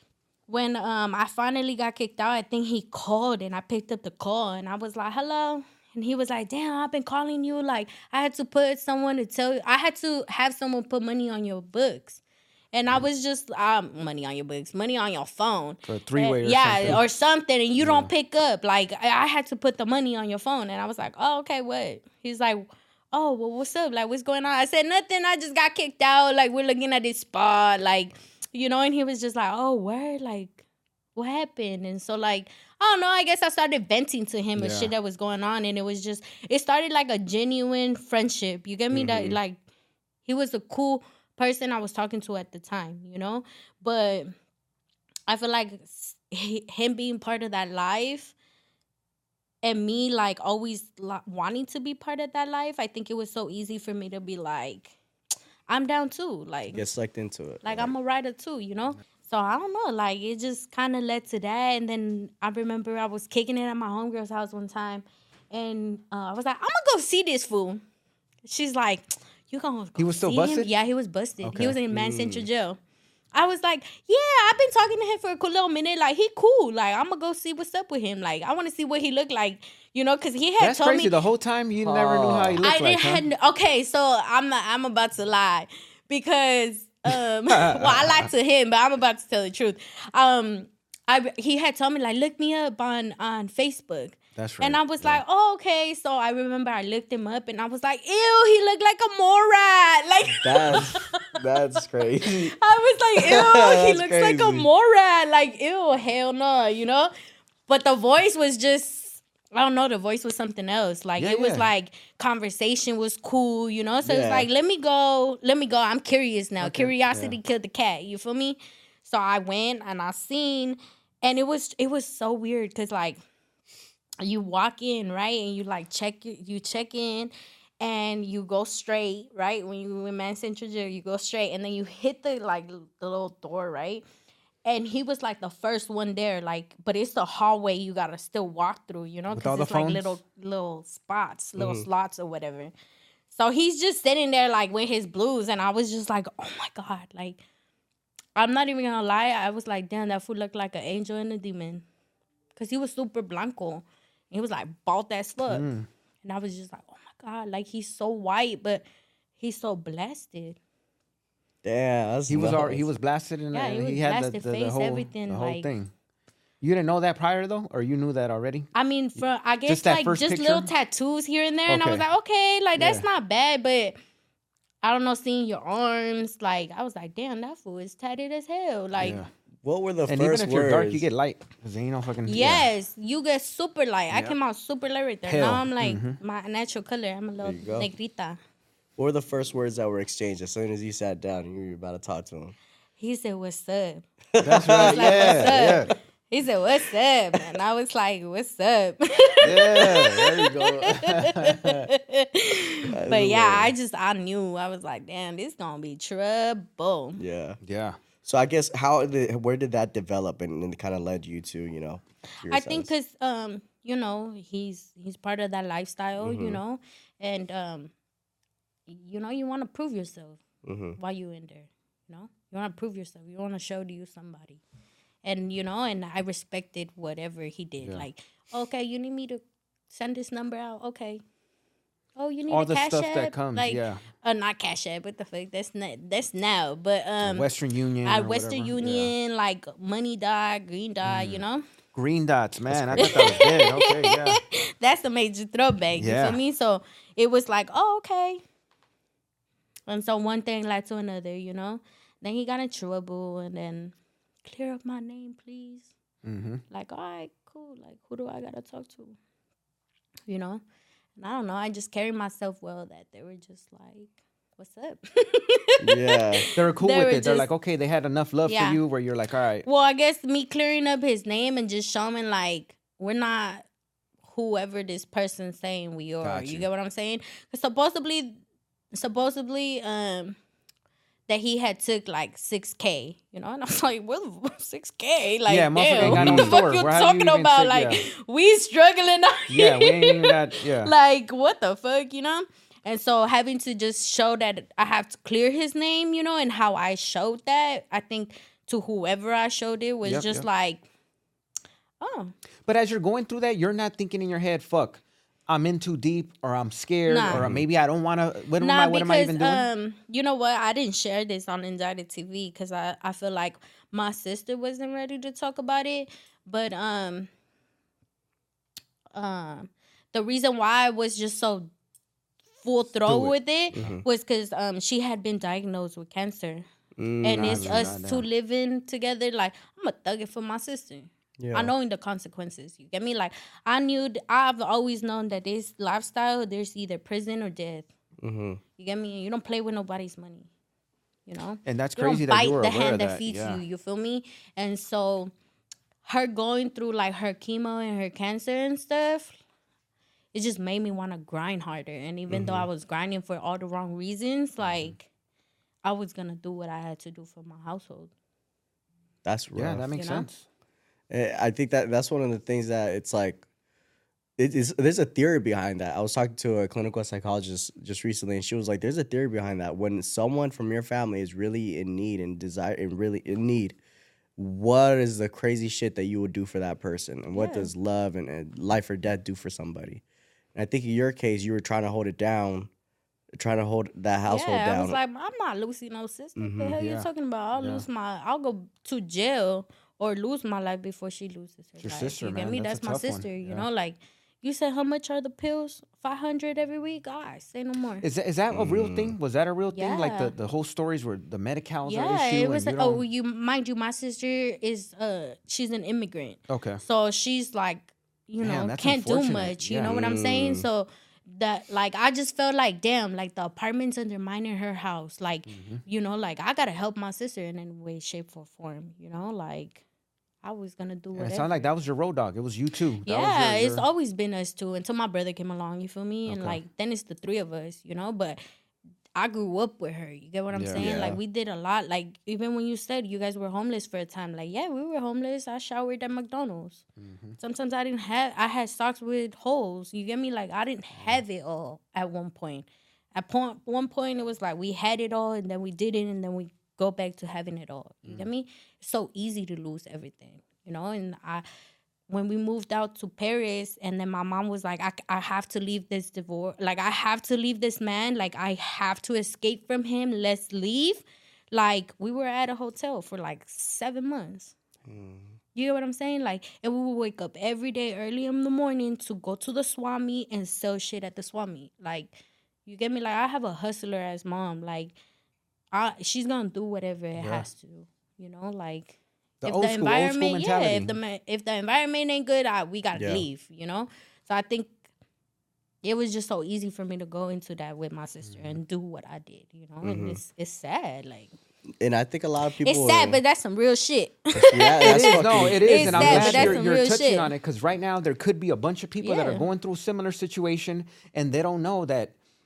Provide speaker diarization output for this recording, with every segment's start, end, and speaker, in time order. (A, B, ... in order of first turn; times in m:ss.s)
0:00.5-0:12.2 A
0:12.7-0:30.6 A
0:15.9-0:17.0 B
0:17.8-0:18.1 B
0:31.2-0:39.6 A
0:34.6-0:34.9 B
0:38.9-0:39.4 B
0:40.2-0:44.3 A
0:45.3-0:48.3 A
0:49.6-0:54.9 A
0:55.7-0:56.9 A
0:56.7-0:57.9 C
0:57.6-1:07.8 A
1:08.4-1:12.8 A
1:10.0-1:10.7 B
1:11.4-1:11.8 B
1:11.9-1:12.5 C
1:13.3-1:21.1 A
1:20.6-1:23.2 B
1:21.8-1:22.6 C
1:22.6-1:41.3 A
1:27.5-1:28.3 B
1:34.4-1:35.2 B
1:40.4-1:42.5 C
1:42.2-1:47.1 A
1:43.2-1:44.6 C
1:47.6-2:03.2 A
1:51.2-1:51.7 B
1:54.0-1:54.5 C
1:56.6-1:57.4 B
2:04.2-2:14.0 A
2:14.6-2:22.7 A
2:19.3-2:20.2 B
2:21.6-2:21.8 C
2:23.3-2:27.4 A
2:28.4-2:31.8 A
2:32.5-2:35.6 A
2:35.5-2:35.9 B
2:36.2-2:38.8 A
2:39.4-2:40.6 A
2:41.6-2:42.8 C
2:42.3-2:45.9 B
2:43.5-2:45.7 A
2:46.6-2:50.7 B
2:48.7-2:54.0 A
2:51.7-2:52.0 B
2:52.8-2:53.0 B
2:54.8-2:59.2 A
2:59.0-2:59.3 B
2:59.6-3:01.0 C
3:00.1-3:02.7 B
3:02.3-3:08.4 A
3:04.1-3:04.4 B
3:05.2-3:06.2 B
3:07.4-3:07.9 C
3:09.0-3:12.5 C
3:13.0-3:14.0 A
3:14.3-3:15.9 C
3:14.4-3:15.9 B
3:14.6-3:27.2 A
3:19.4-3:21.9 B
3:19.6-3:20.9 C
3:22.9-3:23.7 C
3:27.2-3:27.6 C
3:27.6-3:28.0 B
3:28.2-3:32.9 C
3:32.4-3:37.9 A
3:36.2-3:36.6 C
3:38.9-3:40.4 A
3:40.6-3:41.0 C
3:41.0-3:44.6 A
3:45.2-3:51.2 A
3:52.2-3:57.5 A
3:52.5-3:54.0 B
3:57.2-3:59.1 B
3:58.0-4:01.6 A
4:01.0-4:01.4 B
4:01.9-4:04.4 B
4:02.7-4:03.3 C
4:03.0-4:08.4 A
4:06.0-4:06.4 B
4:09.9-4:15.9 A
4:16.2-4:16.6 B
4:16.7-4:19.2 A
4:20.3-4:20.6 A
4:21.2-4:27.5 A
4:25.8-4:26.4 C
4:26.5-4:29.6 B
4:28.5-4:28.8 A
4:29.6-4:33.6 A
4:34.2-4:38.4 A
4:36.2-4:36.7 B
4:38.9-4:40.4 A
4:41.3-5:00.8 A
4:45.5-4:48.0 B
4:46.0-4:46.6 C
4:49.5-4:50.9 B
5:00.0-5:00.4 B
5:02.0-5:02.3 A
5:02.6-5:09.7 B
5:07.1-5:07.4 A
5:07.3-5:07.6 C
5:08.6-5:17.3 A
5:19.1-5:21.7 A
5:22.6-5:26.6 A
5:23.0-5:24.0 B
5:23.7-5:24.0 C
5:27.0-5:27.9 C
5:27.2-5:37.9 A
5:27.4-5:28.2 B
5:31.4-5:31.7 C
5:38.2-5:38.6 C
5:38.8-5:40.5 A
5:41.2-5:45.3 A
5:41.6-5:43.6 B
5:46.0-5:49.4 A
5:50.3-5:55.1 A
5:52.3-5:52.6 B
5:54.6-5:54.9 B
5:55.8-5:58.1 A
5:59.2-5:59.9 C
5:59.6-6:00.4 B
6:00.0-6:00.3 A
6:01.1-6:03.4 C
6:04.4-6:13.8 C
6:14.4-6:20.0 C
6:17.3-6:17.7 A
6:20.5-6:22.7 C
6:23.3-6:25.0 C
6:24.2-6:38.0 A
6:26.4-6:26.8 C
6:26.8-6:27.8 B
6:31.8-6:33.6 B
6:38.0-6:43.0 B
6:38.5-6:39.1 C
6:39.7-6:40.3 A
6:41.8-6:59.8 A
6:46.5-6:46.8 B
6:48.4-6:50.0 B
6:49.9-6:50.6 C
6:55.5-6:55.8 B
7:00.4-7:01.6 A
7:01.1-7:03.8 B
7:03.0-7:08.4 A
7:06.3-7:06.6 B
7:09.2-7:16.8 A
7:10.5-7:10.9 B
7:10.8-7:11.2 C
7:17.0-7:17.4 B
7:17.4-7:31.4 A
7:32.1-7:44.5 A
7:44.8-7:45.3 C
7:45.5-7:52.1 A
7:52.6-7:54.9 A
7:55.7-8:04.7 A
7:57.1-7:57.4 B
7:59.4-8:01.0 B
8:02.9-8:03.2 C
8:05.8-8:11.3 A
8:08.2-8:08.6 B
8:09.8-8:10.2 C
8:11.8-8:13.2 C
8:12.6-8:17.3 A
8:14.3-8:16.6 C
8:14.8-8:22.1 B
8:19.0-8:19.5 A